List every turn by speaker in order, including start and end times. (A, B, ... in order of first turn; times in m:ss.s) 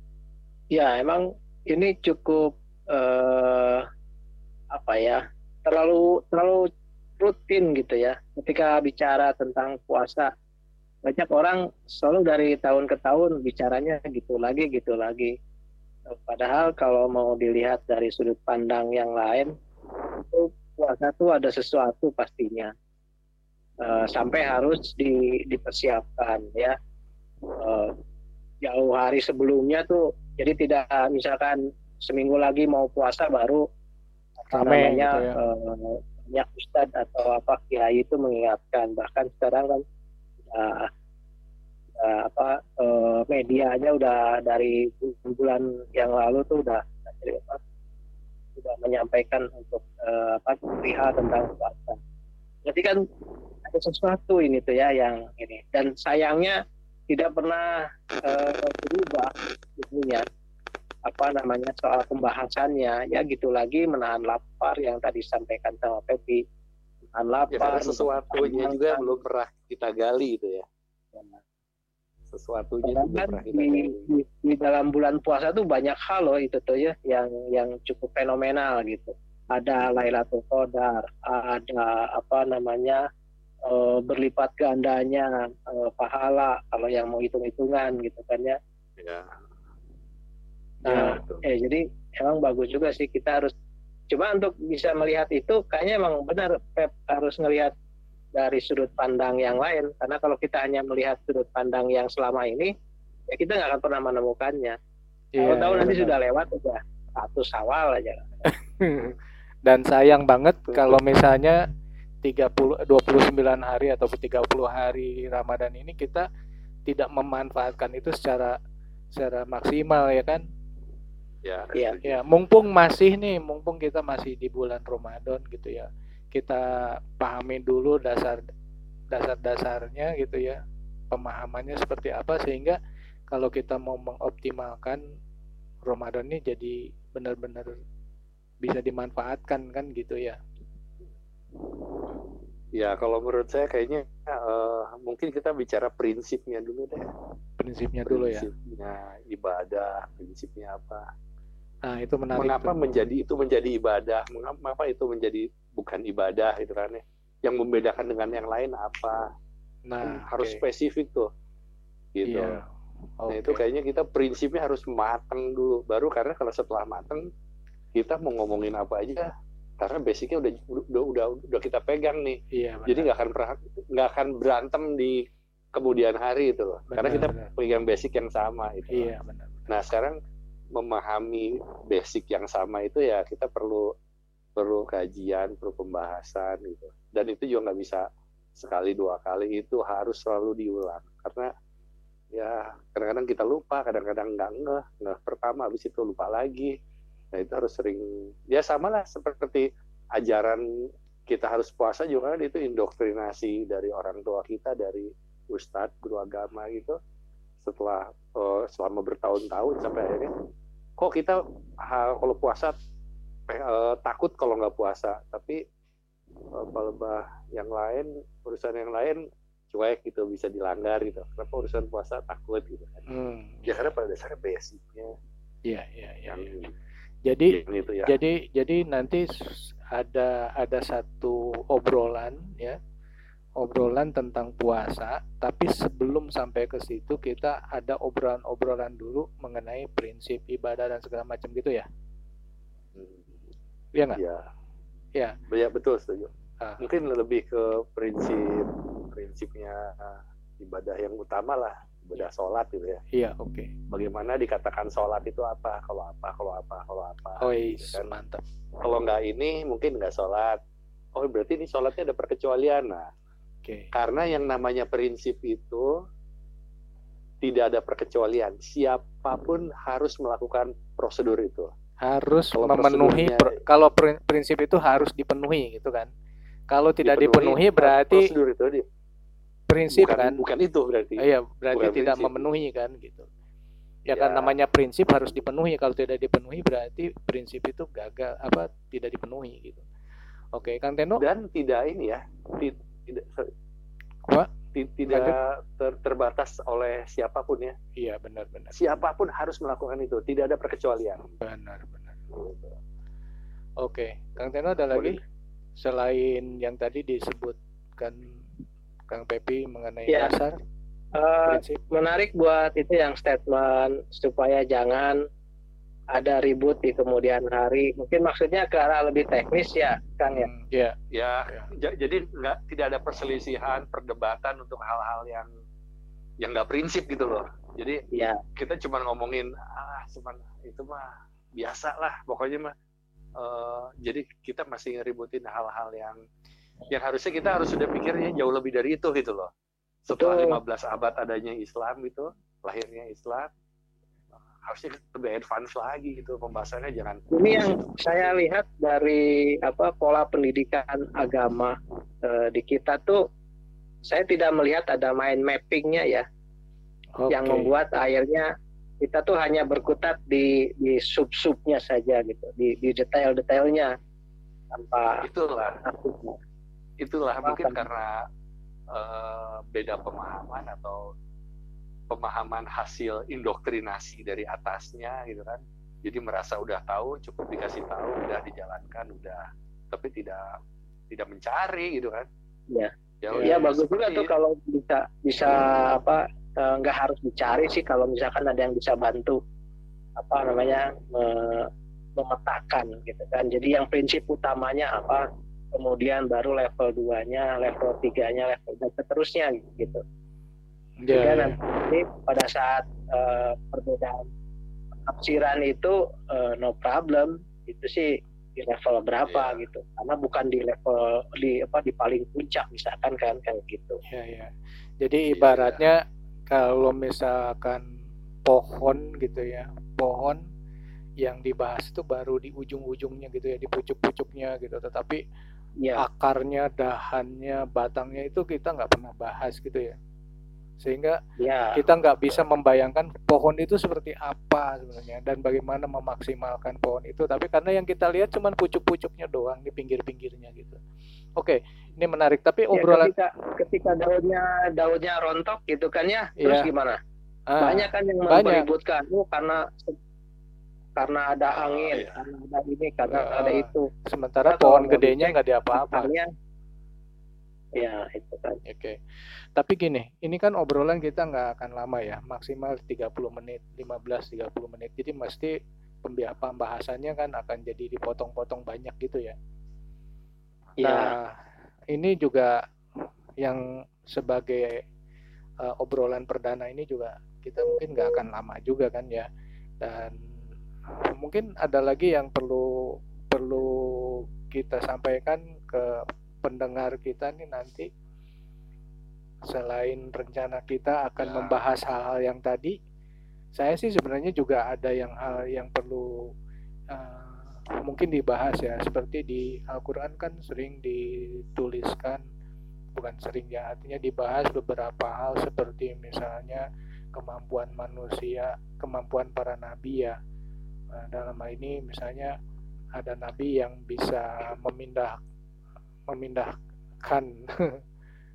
0:00.7-0:03.8 A
0:04.7-0:06.6 A
0:07.2-0:10.3 A
0:11.0-0:15.3 A
0:16.2-0:19.5 A
0:20.3-0:22.7 A
0:23.8-0:26.7 A
0:27.6-0:27.9 A
0:28.6-0:33.6 A
0:34.4-0:39.8 A
0:34.5-0:35.4 B
0:40.5-0:40.9 A
0:42.0-0:47.6 A
0:48.6-0:52.0 A
0:52.6-0:53.0 A
0:53.7-0:56.6 A
0:57.1-0:57.7 A
0:58.2-1:00.2 A
1:01.1-1:06.4 A
1:07.1-1:09.0 A
1:07.5-1:10.6 C
1:12.3-1:14.0 C
1:12.9-1:23.0 A
1:23.7-1:28.6 A
1:29.0-1:29.3 C
1:30.8-1:33.5 A
1:30.9-1:31.4 C
1:30.9-1:31.2 B
1:34.1-1:37.7 A
1:38.4-1:42.7 A
1:43.3-1:44.8 A
1:45.3-1:46.1 B
1:45.4-1:48.3 A
1:48.4-1:51.6 B
1:52.2-1:56.2 B
1:56.9-1:58.5 B
1:59.1-2:00.4 B
2:01.4-2:02.3 C
2:02.0-2:08.4 B
2:09.1-2:10.6 B
2:11.1-2:12.8 B
2:13.3-2:15.0 B
2:15.8-2:17.8 B
2:18.6-2:20.4 B
2:22.8-2:27.0 C
2:27.6-2:28.5 B
2:28.0-2:31.0 C
2:31.8-2:32.8 B
2:32.4-2:39.2 C
2:39.9-2:40.6 B
2:40.0-2:41.2 C
2:42.1-2:42.6 C
2:42.2-2:42.7 B
2:43.2-2:43.6 B
2:43.3-2:47.2 C
2:47.9-2:49.3 C
2:49.8-2:55.2 C
2:52.5-2:53.1 B
2:55.7-2:59.1 C
2:56.9-2:57.5 B
2:58.9-2:59.7 B
2:59.7-3:00.1 C
3:00.8-3:03.8 C
3:04.6-3:08.0 C
3:08.6-3:11.5 C
3:12.3-3:16.7 C
3:17.3-3:20.6 C
3:21.3-3:27.0 C
3:27.6-3:30.3 C
3:31.0-3:32.8 C
3:33.5-3:35.6 C
3:36.5-3:39.2 C
3:39.7-3:43.0 C
3:43.1-3:43.9 B
3:43.7-3:45.1 C
3:45.7-3:46.5 B
3:46.3-3:46.7 C
3:47.2-3:49.3 B
3:47.5-3:48.1 C
3:49.9-3:52.8 B
3:53.6-4:01.9 B
4:02.9-4:03.2 C
4:04.1-4:04.4 C
4:05.5-4:13.0 C
4:13.1-4:13.7 B
4:13.9-4:18.1 C
4:17.4-4:18.4 B
4:18.8-4:20.6 C
4:21.2-4:23.0 C
4:23.6-4:23.9 B
4:23.9-4:25.9 C
4:27.4-4:31.7 C
4:32.0-4:36.1 B
4:32.6-4:33.5 C
4:36.7-4:38.3 B
4:37.0-4:38.8 C
4:39.7-4:40.4 B
4:39.9-4:42.4 C
4:41.2-4:43.3 B
4:44.1-4:49.8 B
4:44.1-4:44.6 C
4:50.5-4:51.2 B
4:51.2-4:53.5 C
4:54.7-4:57.7 C
4:55.1-4:55.4 B
4:58.0-4:58.7 B
4:58.7-5:01.3 C
5:01.4-5:02.2 B
5:02.3-5:02.7 C
5:03.8-5:05.2 B
5:04.8-5:05.2 C
5:05.8-5:08.4 B
5:09.1-5:10.5 B
5:11.2-5:15.2 A
5:11.5-5:11.8 B
5:16.1-5:20.5 A
5:20.3-5:20.9 B
5:21.1-5:25.5 C
5:26.4-5:28.0 C
5:28.1-5:28.4 A
5:28.6-5:32.7 C
5:33.4-5:36.2 C
5:36.9-5:39.5 C
5:40.0-5:43.5 C
5:40.1-5:40.6 A
5:44.7-5:48.4 C
5:47.3-5:51.7 A
5:52.3-5:53.2 A
5:54.0-5:56.2 A
5:57.2-5:57.7 B
5:57.3-5:58.4 A
5:59.0-6:03.9 A
6:04.7-6:05.2 A
6:05.2-6:05.8 C
6:05.8-6:06.4 A
6:07.0-6:08.1 C
6:07.4-6:07.8 A
6:08.9-6:11.0 C
6:12.1-6:20.4 C
6:21.1-6:22.3 C
6:23.2-6:24.3 C
6:23.3-6:23.7 B
6:23.4-6:29.4 A
6:30.2-6:31.6 A
6:32.2-6:35.2 A
6:35.7-6:40.0 A
6:41.0-6:41.6 B
6:41.1-6:44.2 A
6:45.1-6:54.0 A
6:49.3-6:49.6 C
6:54.1-6:56.0 B
6:55.3-6:55.8 C
6:56.5-6:57.8 B
6:58.4-7:00.4 B
7:01.2-7:05.2 B
7:06.0-7:09.9 B
7:10.8-7:11.2 B
7:11.4-7:11.8 A
7:11.8-7:20.8 B
7:21.4-7:23.1 B
7:22.7-7:27.0 A
7:26.4-7:26.7 B
7:27.5-7:28.6 B
7:27.6-7:29.9 A
7:31.0-7:33.8 A
7:31.5-7:32.2 C
7:33.1-7:36.1 B
7:34.4-7:36.3 A
7:37.8-7:38.6 A
7:38.6-7:39.0 B
7:39.5-7:45.5 B
7:46.0-7:49.4 B
7:50.8-7:51.1 A
7:50.8-7:51.3 B
7:51.9-7:52.6 B
7:53.4-7:54.8 B
7:55.6-7:59.3 B
7:59.8-8:00.2 B
8:01.1-8:07.9 B
8:09.5-8:12.8 B
8:11.2-8:11.6 C
8:13.6-8:16.3 B
8:16.9-8:22.2 B
8:22.9-8:30.2 B
8:30.9-8:32.3 B
8:32.9-8:35.2 B
8:36.1-8:36.5 B
8:37.0-8:37.8 B